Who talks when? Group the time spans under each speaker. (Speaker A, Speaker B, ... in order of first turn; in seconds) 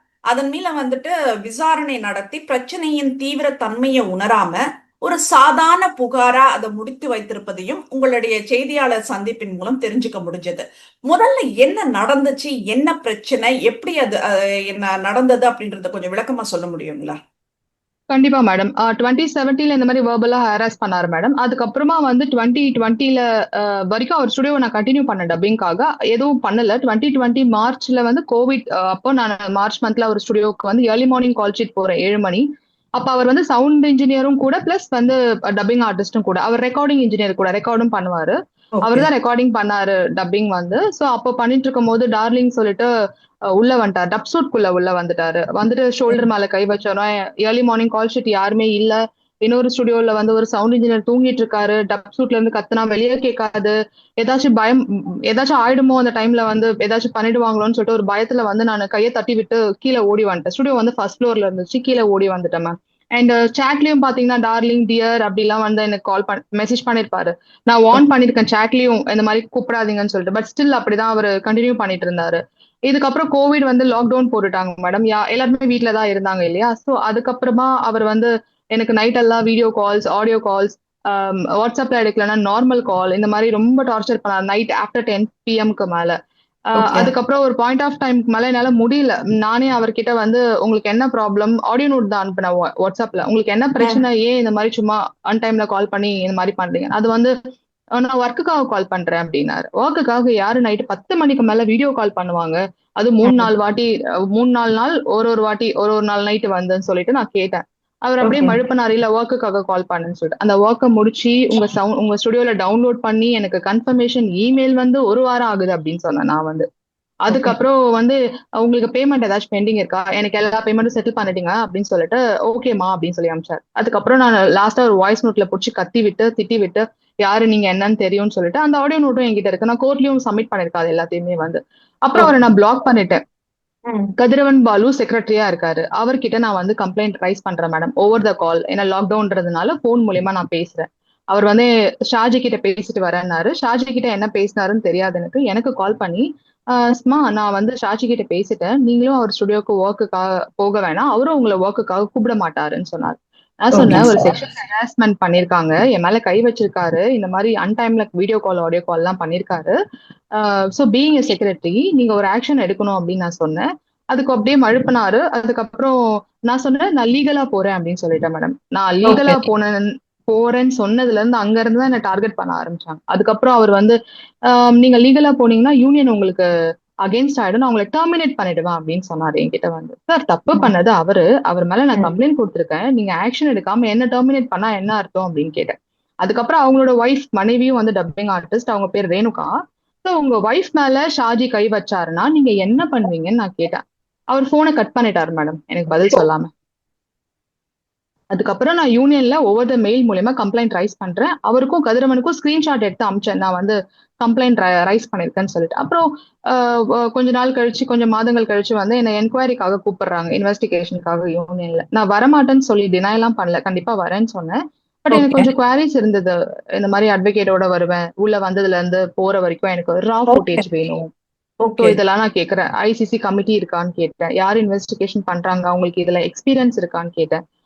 Speaker A: 0.3-17.2, 38.8-39.1, 86.8-87.1, 103.2-103.5, 108.2-108.6, 117.3-117.6, 133.9-134.1, 153.7-154.3, 169.1-169.4, 215.1-215.5, 220.3-220.7, 221.6-222.0
Speaker B: 18.1-32.5, 33.0-42.9, 43.6-86.2, 86.8-97.3, 98.0-116.7, 117.3-133.2, 134.2-146.2, 146.8-159.8, 160.4-166.0, 166.5-174.0, 174.5-176.5, 177.1-189.5, 190.0-193.8, 194.3-196.5, 198.3-221.1, 221.8-227.4